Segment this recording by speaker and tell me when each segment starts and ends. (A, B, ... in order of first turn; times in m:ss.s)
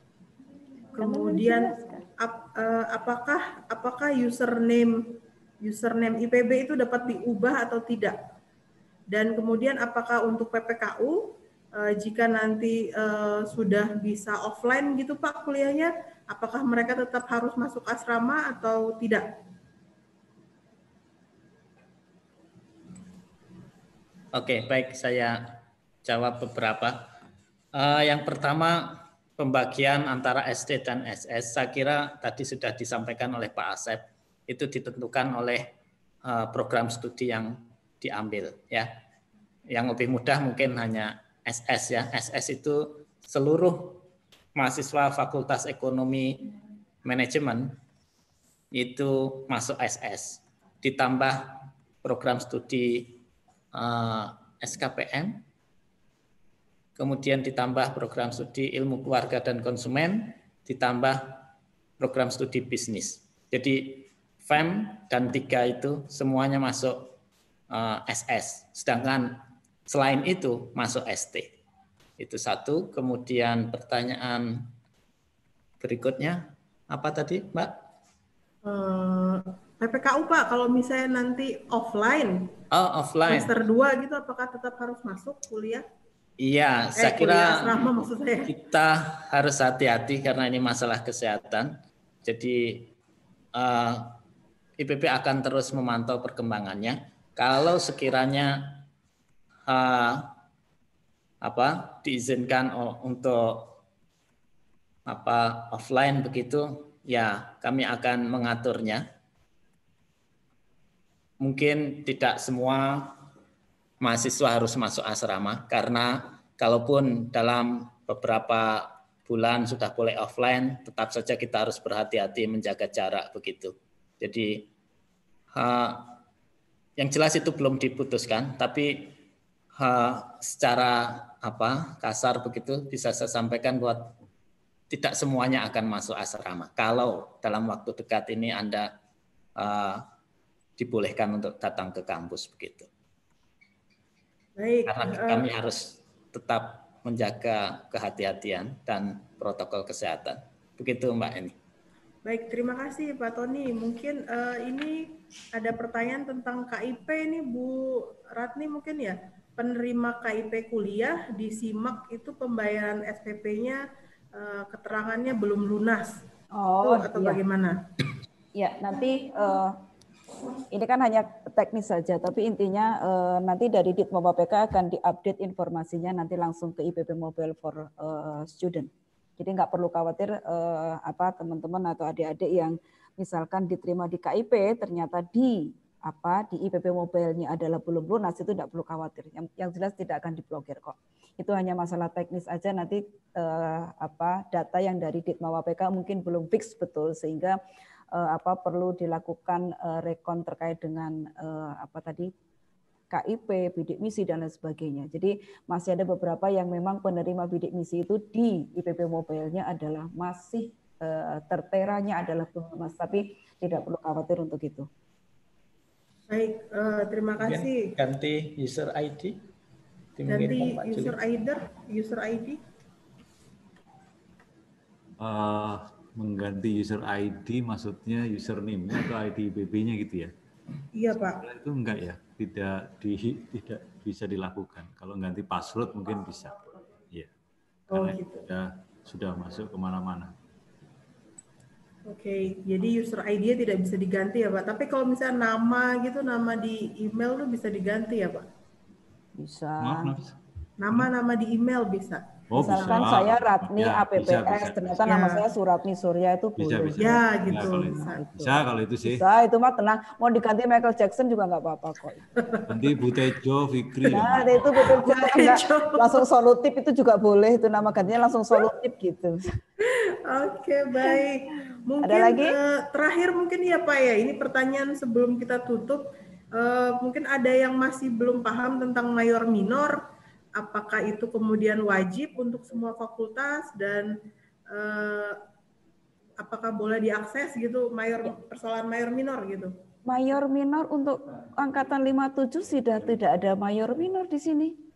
0:01.0-0:08.2 A
0:01.0-0:02.0 B
0:09.1-0:19.3 A
0:24.3-0:27.1 C
0:27.7-0:35.7 C
0:36.2-0:38.9 C
0:39.7-0:44.0 C
0:44.6-0:46.4 C
0:47.0-0:47.8 C
0:48.7-0:53.2 C
0:53.7-0:55.4 C
0:57.0-1:07.1 C
1:07.7-1:11.5 C
1:12.2-1:14.7 C
1:15.8-1:17.8 C
1:18.6-1:22.5 A
1:22.7-1:23.5 C
1:23.3-1:25.8 A
1:26.4-1:27.8 C
1:27.0-1:28.5 A
1:28.4-1:31.7 C
1:32.2-1:32.9 C
1:33.6-1:34.2 C
1:34.8-1:38.8 C
1:39.7-1:40.3 C
1:41.4-1:43.8 C
1:45.1-1:49.0 C
1:51.4-1:53.2 C
1:54.0-2:04.7 C
2:05.5-2:06.2 C
2:07.0-2:09.2 C
2:09.8-2:14.1 C
2:14.9-2:18.9 C
2:19.6-2:20.0 C
2:20.8-2:22.9 C
2:24.6-2:25.4 A
2:24.9-2:31.5 C
2:32.2-2:43.8 A
2:44.3-2:46.2 A
2:46.6-2:47.4 B
2:46.8-2:47.8 A
2:48.6-2:49.7 B
2:50.7-3:17.5 B
3:18.1-3:22.3 B
3:23.1-3:34.9 B
3:36.3-3:37.9 A
3:37.4-3:39.4 C
3:40.2-3:41.2 C
3:40.3-3:42.6 A
3:45.2-3:50.3 D
3:51.0-3:51.4 A
3:51.4-3:57.3 D
3:57.9-4:00.3 D
3:57.9-3:58.4 A
4:02.1-4:08.5 A
4:09.4-4:10.1 B
4:09.8-4:10.3 D
4:10.8-4:13.0 A
4:12.5-4:15.0 D
4:12.6-4:18.5 B
4:15.0-4:15.4 A
4:16.6-4:19.2 D
4:17.0-4:18.2 A
4:19.0-4:22.2 B
4:22.7-4:24.9 D
4:24.0-4:29.4 B
4:24.8-4:26.2 A
4:29.8-4:40.0 A
4:32.0-4:32.4 B
4:40.6-4:44.1 A
4:44.7-4:45.4 A
4:46.4-4:49.7 A
4:50.0-4:54.7 B